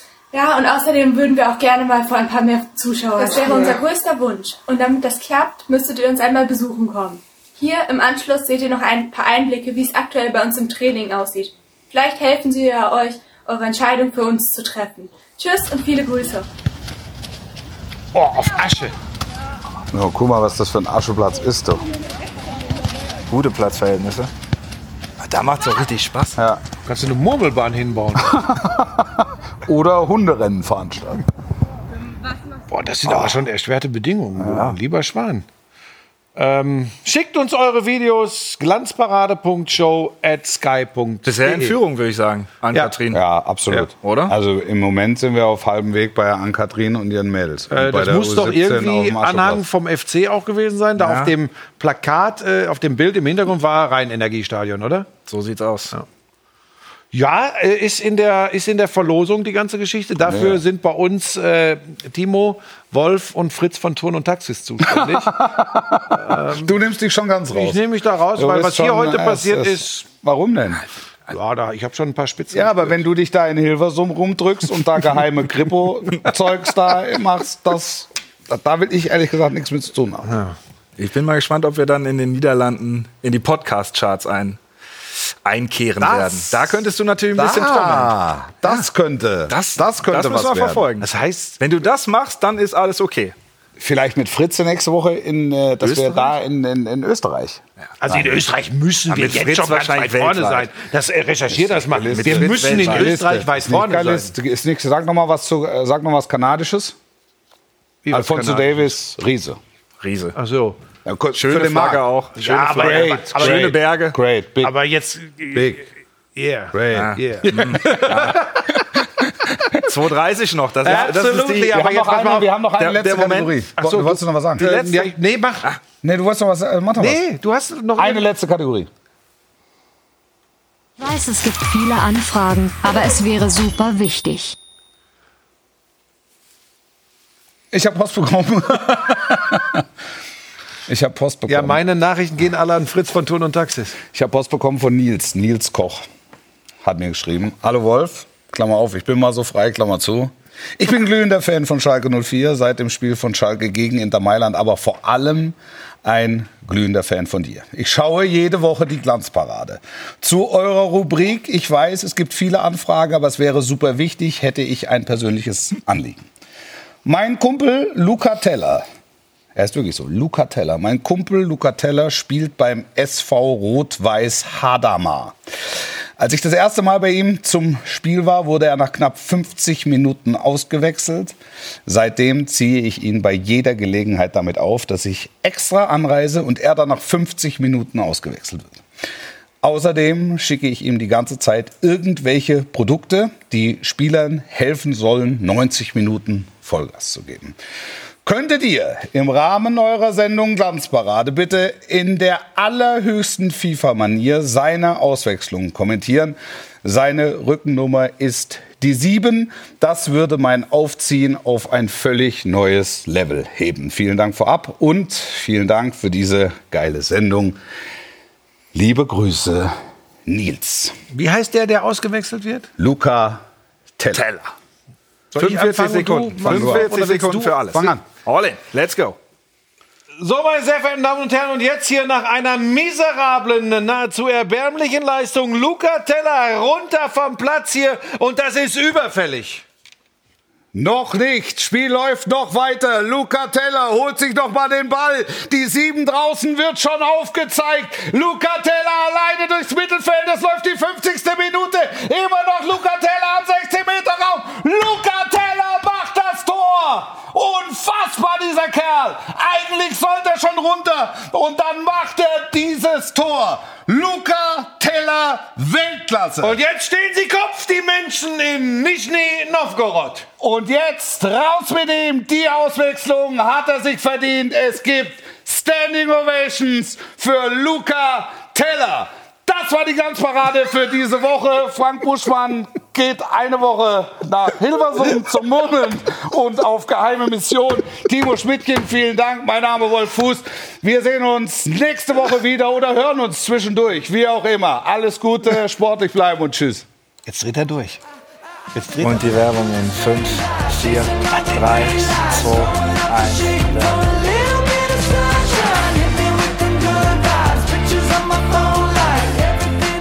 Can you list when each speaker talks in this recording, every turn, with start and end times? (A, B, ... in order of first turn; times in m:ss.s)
0:00.3-0:16.5 A
0:18.1-0:18.9 B
0:19.9-0:21.8 C
0:23.3-0:24.3 D
0:25.2-0:26.4 D
0:26.4-0:26.6 C
0:26.9-0:28.4 B
0:28.2-0:31.3 C
0:32.7-0:35.4 B
0:34.5-0:34.7 D
0:36.4-0:41.8 B
0:41.2-0:43.2 D
0:43.1-0:49.6 C
0:44.0-0:44.3 D
0:47.7-0:55.1 B
0:51.0-0:51.3 D
0:55.3-0:55.9 D
0:57.1-1:05.5 B
1:00.2-1:00.6 C
1:04.8-1:07.8 C
1:06.1-1:06.7 B
1:07.5-1:10.1 B
1:08.4-1:10.8 C
1:11.3-1:13.0 B
1:12.5-1:20.4 C
1:20.3-1:20.6 B
1:21.0-1:24.6 D
1:25.4-1:28.8 D
1:26.0-1:26.7 C
1:27.3-1:30.9 C
1:29.5-1:31.1 D
1:31.0-1:31.6 B
1:31.6-1:33.4 D
1:33.8-1:38.4 C
1:38.0-1:44.3 B
1:39.1-1:40.7 D
1:41.5-1:47.0 C
1:42.2-1:43.1 D
1:48.0-1:48.8 B
1:48.1-1:49.6 C
1:50.0-1:50.4 D
1:50.4-1:50.8 B
1:51.0-1:52.0 C
1:51.4-1:54.2 D
1:52.4-1:53.8 B
1:52.7-1:54.8 C
1:54.6-1:58.6 B
1:55.5-1:55.8 C
1:56.7-1:58.4 C
1:56.9-1:58.8 D
1:59.7-2:01.8 D
2:00.8-2:02.5 B
2:01.7-2:05.1 C
2:02.8-2:03.6 D
2:03.8-2:05.7 B
2:06.0-2:07.2 C
2:07.0-2:08.2 B
2:08.0-2:08.9 C
2:11.0-2:14.6 E
2:17.7-2:19.9 C
2:20.9-2:21.8 C
2:21.5-2:24.0 B
2:24.1-2:26.1 C
2:26.8-2:46.3 C
2:47.0-2:48.8 C
2:49.6-2:55.4 C
2:56.2-3:08.8 C
3:09.6-3:17.6 C
3:18.2-3:37.6 C
3:38.7-3:39.7 C
3:40.3-3:41.0 C
3:41.1-3:42.7 B
3:42.8-3:43.4 C
3:44.1-3:44.5 D
3:45.3-3:48.0 B
3:45.4-3:49.2 D
3:46.4-3:46.9 C
3:47.7-3:48.0 C
3:50.2-3:59.6 B
4:00.7-4:26.6 C
4:26.4-4:30.3 B
4:30.4-4:56.9 C
4:57.3-4:58.0 B
4:58.7-4:59.3 B
4:59.0-5:04.3 D
5:01.3-5:01.6 B
5:05.3-5:09.7 B